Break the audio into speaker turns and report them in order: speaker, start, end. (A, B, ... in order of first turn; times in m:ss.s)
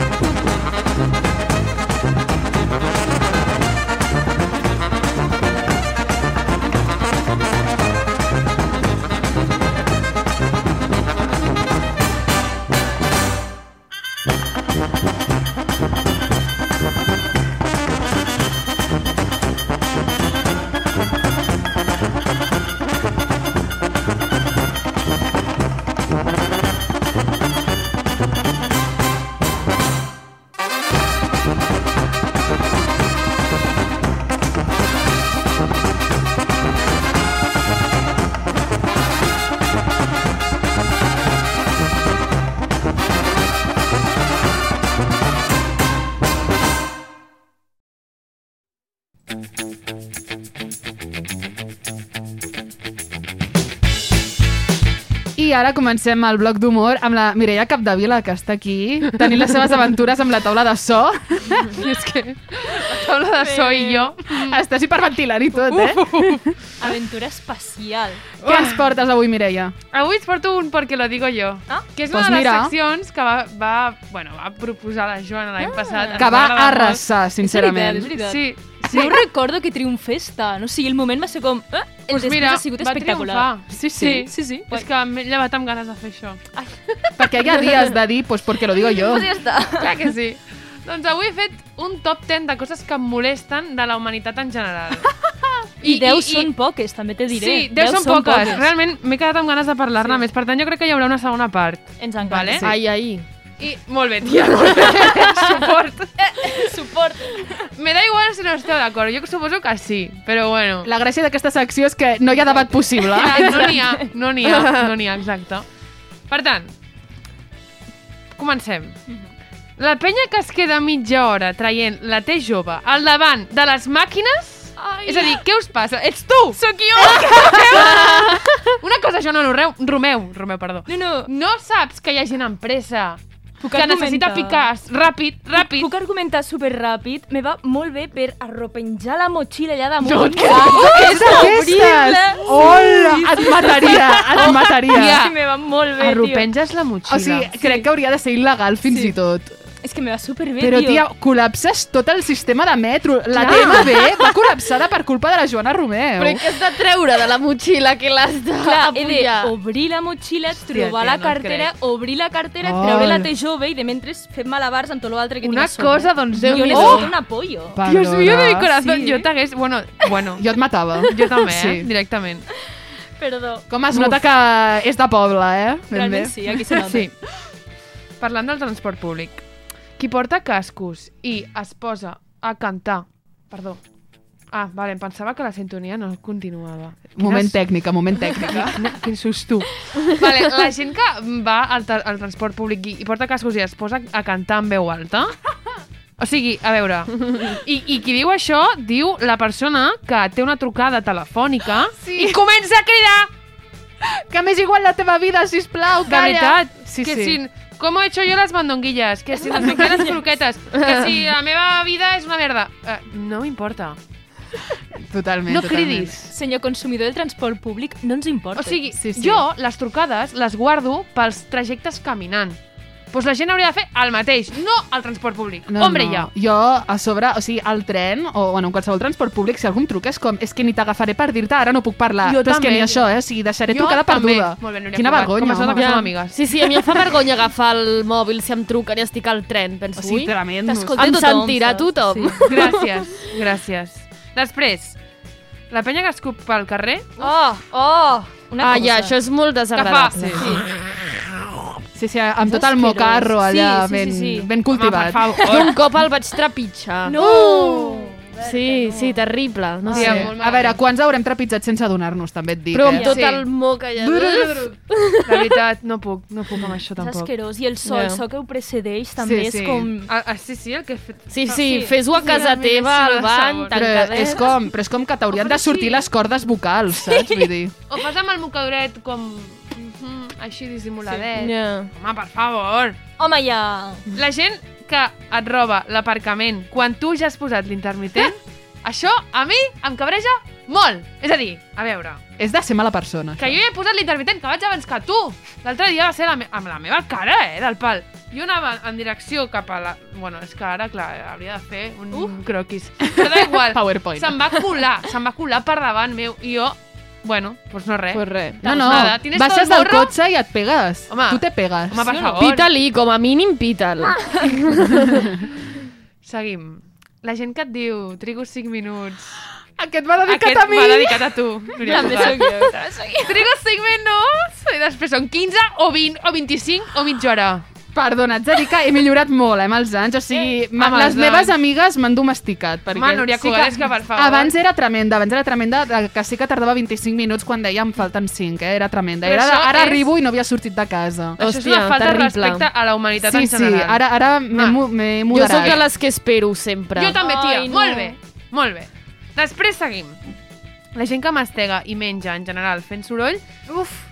0:55.3-1:01.7 A
1:01.7-1:04.6 B
1:03.2-1:04.2 C
1:04.3-1:06.5 A
1:06.1-1:08.3 C
1:08.4-1:09.7 A
1:08.4-1:08.9 B
1:09.9-1:17.0 B
1:12.1-1:12.7 A
1:15.6-1:16.3 C
1:16.2-1:18.1 A
1:17.4-1:24.8 C
1:18.1-1:19.2 B
1:18.8-1:19.1 A
1:22.1-1:26.4 B
1:23.7-1:24.3 A
1:27.2-1:29.2 A
1:28.8-1:29.9 C
1:29.8-1:35.1 B
1:35.8-1:36.5 B
1:35.8-1:38.7 C
1:37.3-1:42.6 B
1:40.0-1:40.2 C
1:42.0-1:42.6 C
1:42.3-1:42.7 A
1:42.6-1:43.2 D
1:43.6-1:46.1 B
1:45.0-1:45.3 A
1:46.2-1:47.5 C
1:47.7-1:50.9 B
1:50.8-1:53.7 A
1:53.0-1:55.7 B
1:53.2-1:54.0 C
1:54.4-1:54.7 D
1:56.3-1:56.7 B
1:58.3-1:59.0 B
1:59.8-2:15.9 B
2:04.8-2:05.4 C
2:06.5-2:08.2 C
2:10.9-2:11.3 C
2:13.6-2:14.7 C
2:15.5-2:26.5 C
2:20.0-2:21.5 B
2:20.4-2:25.2 A
2:24.3-2:25.4 B
2:25.9-2:27.5 B
2:27.0-2:29.6 A
2:27.6-2:27.8 C
2:28.8-2:29.1 C
2:29.8-2:31.0 C
2:30.6-2:36.4 A
2:33.4-2:34.0 C
2:33.4-2:33.9 B
2:36.2-2:39.5 D
2:38.6-2:47.8 C
2:40.7-2:41.7 B
2:42.6-2:43.3 A
2:45.4-2:47.2 B
2:46.7-2:47.1 A
2:47.8-2:48.7 A
2:47.8-2:50.5 B
2:48.8-2:49.3 C
2:50.4-2:51.9 A
2:51.1-2:52.5 B
2:53.2-2:53.7 C
2:53.7-2:56.4 A
2:53.9-2:54.2 B
2:55.9-2:57.1 C
2:56.8-2:57.1 B
2:58.2-3:03.8 B
3:04.5-3:07.7 B
3:07.2-3:08.8 A
3:08.7-3:15.4 B
3:16.2-3:23.3 B
3:22.0-3:22.4 A
3:24.0-3:27.4 A
3:26.0-3:34.0 B
3:29.5-3:30.2 C
3:30.8-3:31.1 D
3:35.0-3:36.3 A
3:35.5-3:36.2 B
3:36.3-3:38.8 C
3:38.6-3:42.6 B
3:38.9-3:39.4 A
3:43.1-3:46.3 B
3:45.7-3:56.0 A
3:52.2-3:53.0 B
3:53.7-3:56.4 B
3:55.7-4:00.3 D
4:00.0-4:01.0 A
4:00.6-4:02.4 C
4:01.0-4:02.8 D
4:02.4-4:05.0 B
4:05.7-4:07.3 B
4:07.2-4:09.1 C
4:08.6-4:10.6 D
4:09.7-4:10.6 B
4:10.4-4:10.6 C
4:12.0-4:15.4 A
4:12.5-4:14.5 C
4:14.7-4:15.8 B
4:15.4-4:20.3 D
4:17.0-4:19.2 C
4:19.9-4:23.1 A
4:19.9-4:20.8 B
4:22.7-4:25.6 D
4:23.1-4:23.4 B
4:24.0-4:24.7 A
4:25.3-4:27.3 B
4:27.0-4:30.1 C
4:27.8-4:28.2 D
4:29.2-4:29.9 A
4:30.0-4:33.8 B
4:31.3-4:34.4 D
4:31.5-4:32.5 C
4:33.7-4:37.7 A
4:35.3-4:36.0 B
4:37.0-4:37.5 C
4:37.9-4:43.0 B
4:41.2-4:41.9 D
4:43.2-4:44.0 C
4:44.1-4:52.2 B
4:52.4-4:53.6 A
4:53.4-5:10.1 B
5:03.1-5:04.6 A
5:08.1-5:09.1 D
5:08.6-5:12.1 A
5:11.1-5:12.7 B
5:12.0-5:12.4 C
5:12.4-5:15.1 D
5:16.2-5:19.4 B
5:19.8-5:21.3 A
5:20.2-5:22.7 B
5:21.8-5:23.5 C
5:21.9-5:22.2 A
5:23.2-5:27.6 B
5:27.9-5:41.4 A
5:30.7-5:31.5 B
5:32.9-5:34.5 B
5:39.2-5:40.1 B
5:41.4-5:44.8 B
5:41.4-5:42.7 D
5:43.2-5:45.8 A
5:45.3-5:47.2 D
5:45.3-5:45.8 B
5:47.0-5:50.2 B
5:47.2-5:48.2 C
5:50.9-5:53.5 B